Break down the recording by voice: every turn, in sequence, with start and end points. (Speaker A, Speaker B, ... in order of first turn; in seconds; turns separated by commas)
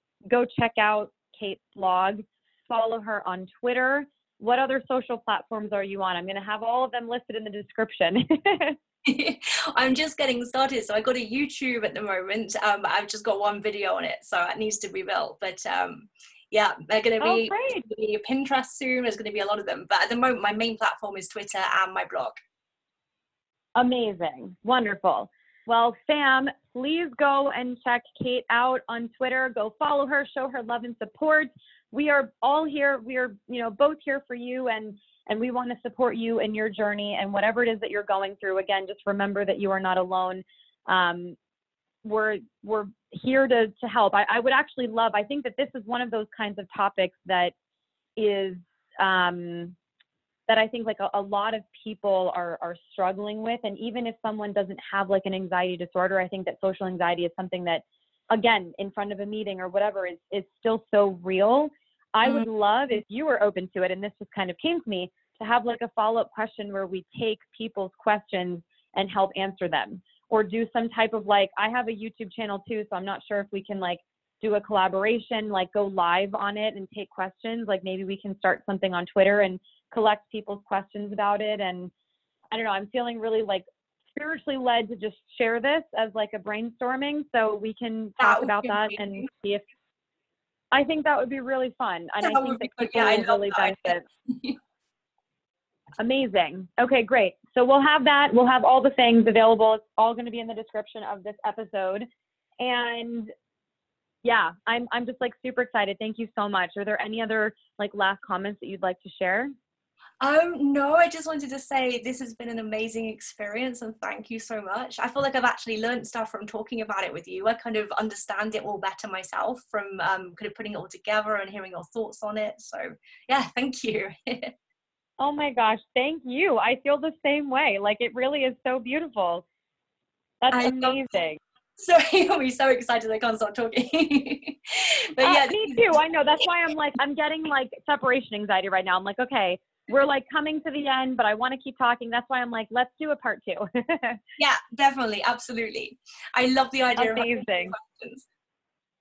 Speaker A: 0.3-8.8, Speaker B: 9.1-22.4, Speaker A: 17.2-17.9, Speaker A: 23.8-41.4, Speaker A: 42.0-47.5, Speaker A: 48.2-49.8, Speaker A: 50.5-81.9, Speaker A: 82.5-89.6, Speaker B: 88.2-89.2, Speaker A: 90.7-94.1, Speaker B: 92.2-94.6, Speaker A: 96.0-102.1, Speaker A: 102.6-103.3, Speaker A: 104.2-109.5, Speaker B: 110.2-124.5, Speaker A: 125.2-129.4, Speaker A: 130.4-131.4, Speaker B: 130.5-131.0, Speaker B: 131.8-136.4, Speaker A: 135.2-144.2, Speaker B: 144.4-148.3, Speaker A: 147.0-147.8